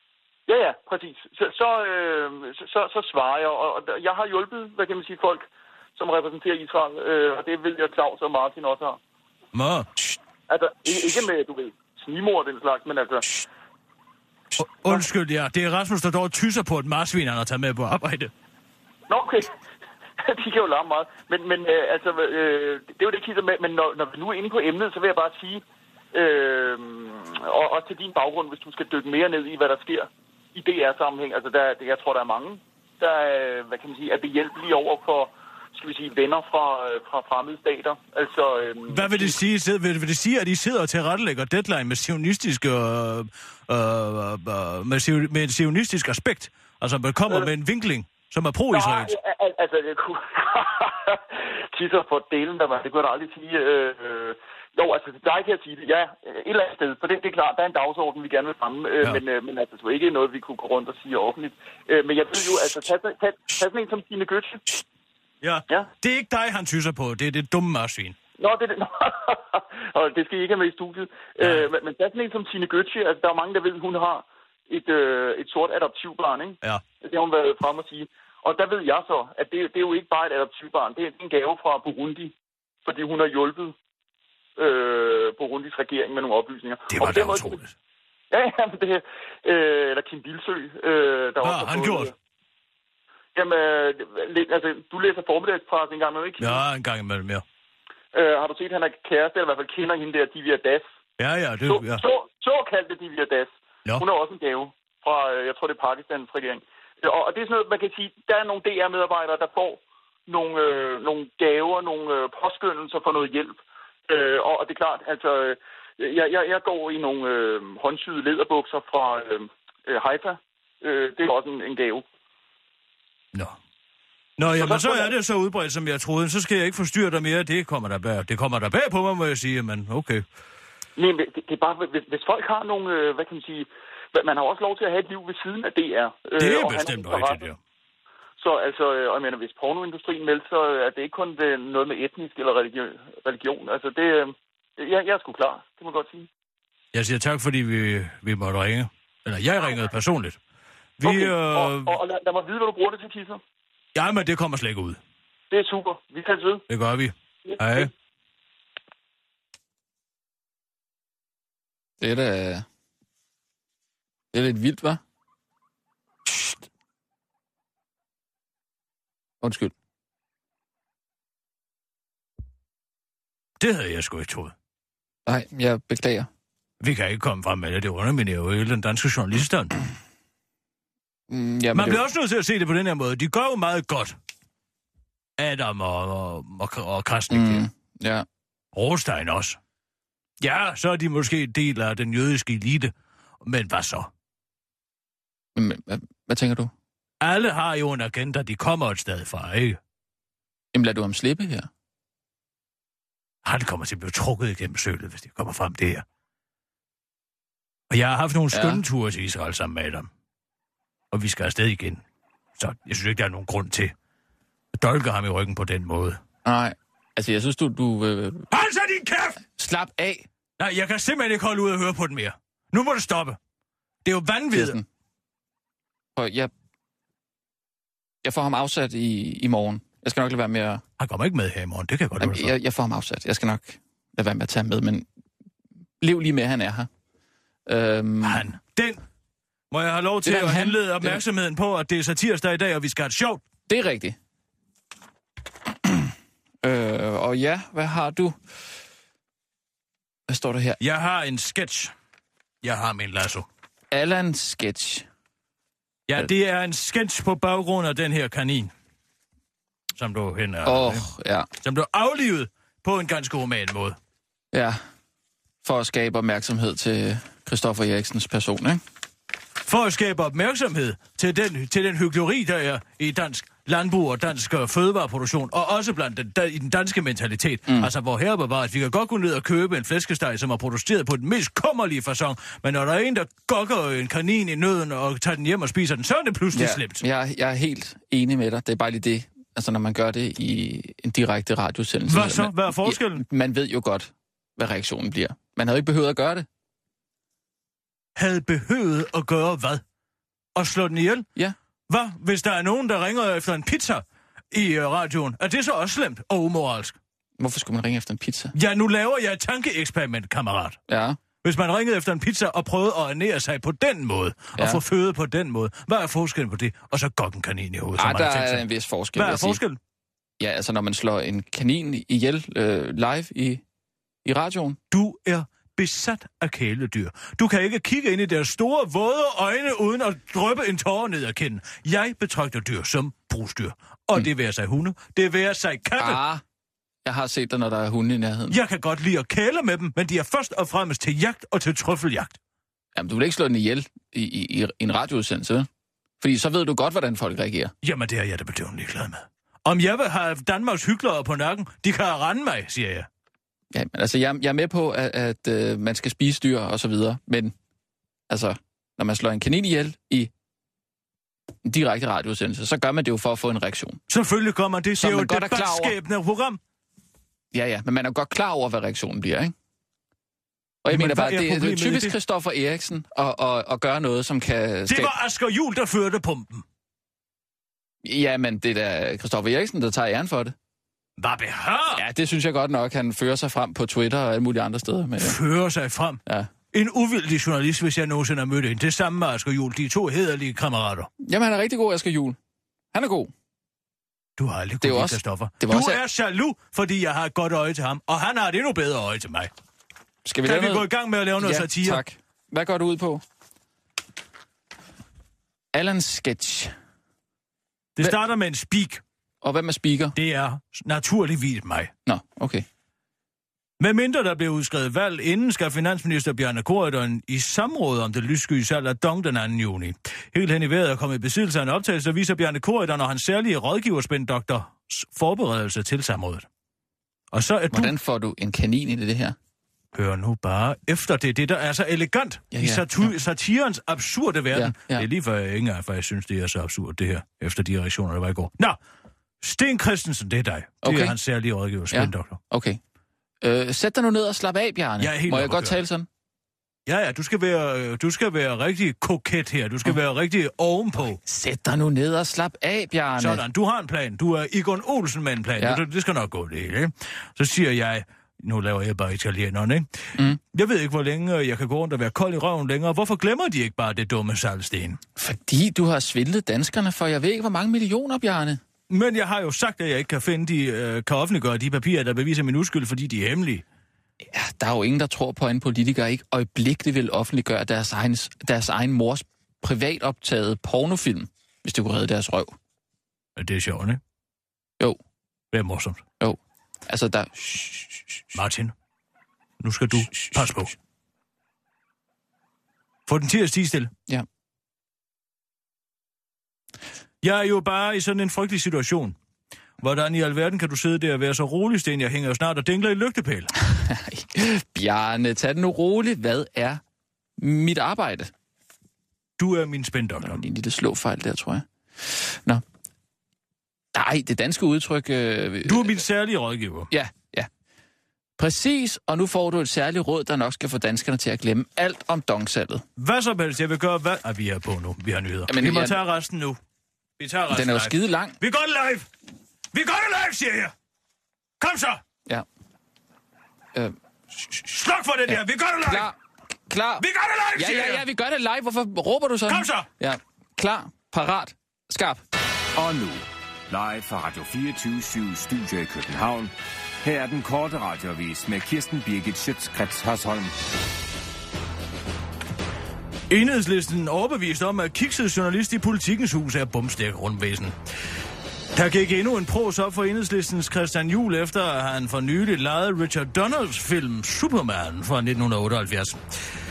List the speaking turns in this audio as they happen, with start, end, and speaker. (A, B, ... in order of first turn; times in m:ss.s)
0:00.5-0:09.0 A
0:09.5-0:09.9 B
0:10.5-0:13.4 A
0:14.6-0:18.3 B
0:19.1-0:19.5 A
0:20.2-0:39.4 A
0:38.9-0:49.1 B
0:48.7-1:04.6 A
1:05.4-1:08.2 B
1:08.4-1:23.8 A
1:11.4-1:11.7 B
1:24.6-1:27.6 A
1:26.9-1:27.7 B
1:28.3-1:32.1 A
1:31.4-1:32.1 B
1:33.4-1:36.6 A
1:36.4-1:37.4 B
1:38.1-1:40.9 A
1:41.2-1:42.0 B
1:41.7-2:02.0 A
2:04.4-2:10.2 B
2:04.6-2:05.1 A
2:11.0-2:17.4 A
2:16.4-2:17.6 B
2:18.4-2:26.3 A
2:26.9-2:30.4 B
2:31.0-2:32.0 B
2:31.0-2:33.4 A
2:34.0-2:35.0 B
2:35.5-2:36.6 A
2:36.7-2:37.9 B
2:37.5-2:37.9 A
2:42.0-2:42.6 C
2:44.3-2:45.0 C
2:46.3-2:46.6 C
2:49.4-2:49.7 C
2:53.6-2:54.5 B
2:55.3-2:56.3 C
2:56.8-2:59.7 B
3:01.3-3:02.0 C
3:01.7-3:04.2 B
3:05.4-3:07.7 B
3:07.3-3:08.3 C
3:08.7-3:09.6 B
3:10.4-3:12.9 B
3:13.4-3:14.1 B
3:15.6-3:16.7 C
3:17.2-3:19.8 B
3:20.7-3:21.7 C
3:23.4-3:26.0 B
3:27.9-3:30.1 B
3:28.5-3:28.8 C
3:31.1-3:32.0 B
3:32.6-3:33.9 B
3:34.8-3:36.2 B
3:36.4-3:38.5 C
3:38.5-3:39.4 B
3:39.6-3:40.3 C
3:40.6-3:43.4 B
3:44.0-3:44.8 B
3:44.5-3:44.8 C
3:46.2-3:46.5 C
3:48.2-3:50.8 C
3:51.0-3:52.6 B
3:52.2-3:55.1 C
3:56.0-3:56.9 C
3:57.7-3:58.5 C
3:58.2-3:59.0 B
3:59.7-4:03.4 B
4:00.2-4:01.2 C
4:03.7-4:04.2 C
4:05.8-4:06.1 C
4:06.6-4:08.4 C
4:10.3-4:10.8 C
4:10.8-4:11.9 B
4:12.6-4:13.5 B
4:13.9-4:15.1 C
4:16.1-4:18.7 B
4:20.0-4:21.1 B
4:20.6-4:21.5 C
4:21.6-4:24.0 B
4:24.5-4:24.8 C
4:25.6-4:28.8 C
4:29.7-4:47.0 B
4:37.7-4:37.9 C
4:46.5-4:56.5 C
4:52.1-4:53.2 B
4:58.2-4:59.8 B
5:00.6-5:01.3 B
5:01.9-5:07.0 B
5:07.4-5:08.6 C
5:08.6-5:10.8 B
5:10.9-5:11.2 C
5:11.4-5:19.8 B
5:14.6-5:14.8 C
5:18.0-5:19.6 C
5:20.4-5:23.6 C
5:24.2-5:24.8 C
5:24.9-5:36.2 B
5:36.0-5:36.4 C
5:37.0-5:38.6 C
5:38.5-5:42.4 B
5:43.0-5:45.7 C
5:46.2-5:47.7 C
5:47.8-5:53.1 B
5:53.7-5:57.6 C
5:58.3-6:00.3 C
6:01.6-6:04.0 C
6:04.1-6:06.6 B
6:05.0-6:06.0 C
6:07.5-6:09.5 C
6:10.8-6:15.1 C
6:10.9-6:12.2 B
6:14.9-6:16.6 B
6:18.0-6:20.6 C
6:21.2-6:22.0 B
6:21.9-6:25.4 C
6:25.2-6:26.2 B
6:26.7-6:31.1 B
6:31.2-6:32.4 C
6:32.9-6:33.3 C
6:34.4-6:39.5 B
6:34.8-6:36.0 C
6:40.2-6:43.2 C
6:40.4-6:42.0 B
6:45.7-6:46.7 C
6:48.0-6:49.0 B
6:49.4-6:50.2 C
6:50.2-6:51.9 B
6:52.1-6:52.7 C
6:53.8-7:06.5 B
7:07.3-7:07.9 B
7:07.7-7:09.4 C
7:09.9-7:18.8 B
7:12.5-7:13.1 C
7:14.5-7:15.1 C
7:19.4-7:22.4 B
7:20.8-7:21.2 C
7:21.9-7:22.8 C
7:23.4-7:26.1 C
7:25.0-7:25.8 B
7:26.9-7:31.2 B
7:31.2-7:33.4 C
7:33.2-7:39.9 B
7:40.5-7:45.0 B
7:45.2-7:48.6 C
7:48.9-7:53.6 B
7:54.2-8:02.6 C
8:03.4-8:04.0 B
8:05.5-8:06.0 B
8:06.2-8:08.0 C
8:08.3-8:08.7 B
8:09.6-8:10.8 B
8:13.1-8:13.9 B
8:17.2-8:19.2 B
8:19.8-8:23.5 B
8:23.7-8:26.8 C
8:27.4-8:28.3 C
8:29.4-8:30.4 B
8:30.2-8:32.6 C
8:33.9-8:36.0 C
8:35.7-8:36.9 B
8:36.9-8:37.5 C
8:38.4-8:42.8 C
8:43.0-8:46.6 B
8:45.5-8:46.0 C
8:47.2-8:49.1 B
8:47.5-8:48.4 C
8:49.7-8:50.7 B
8:51.6-8:52.0 B
8:54.6-8:56.1 B
8:55.3-8:56.2 C
8:56.7-9:02.2 C
8:57.0-8:58.0 B
8:59.5-8:59.9 B
9:02.8-9:06.5 D
9:07.0-9:10.5 D
9:13.3-9:17.7 B
9:18.8-9:26.2 B